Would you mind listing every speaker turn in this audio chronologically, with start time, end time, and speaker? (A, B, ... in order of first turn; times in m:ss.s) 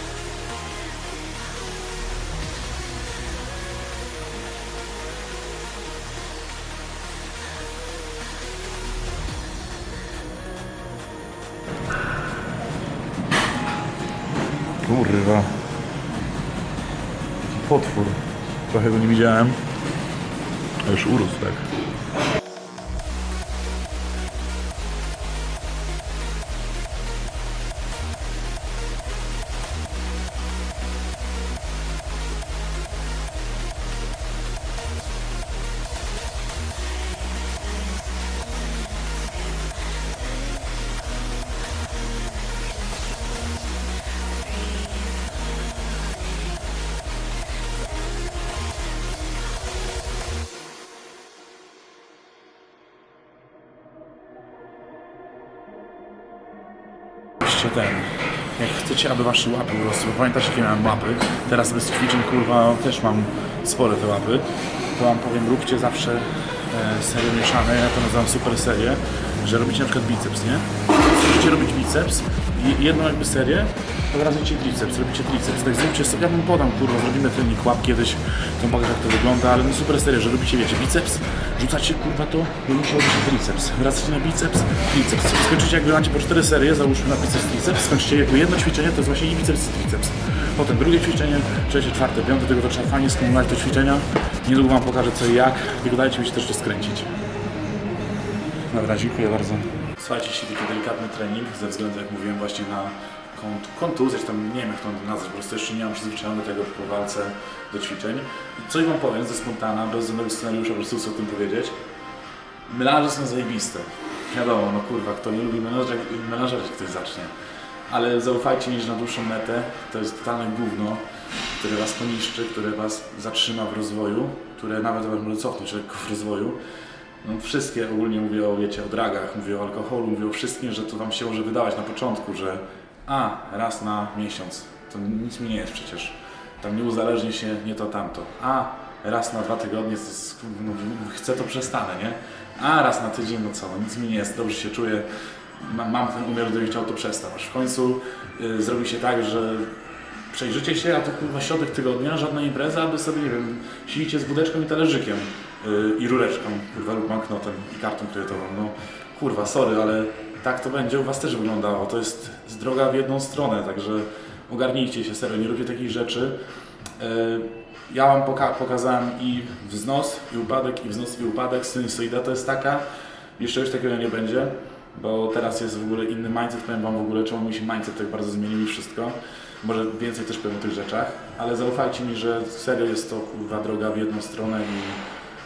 0:14.7-0:15.6 A
0:17.4-0:19.6 A
0:20.8-0:21.7 A
0:57.4-1:37.1 A
1:38.7-1:51.8 A
1:52.7-1:57.3 A
1:57.9-2:01.0 A
2:01.6-2:06.6 A
2:07.2-2:29.8 A
2:30.3-2:46.4 A
2:47.0-2:52.9 A
2:53.4-3:05.0 A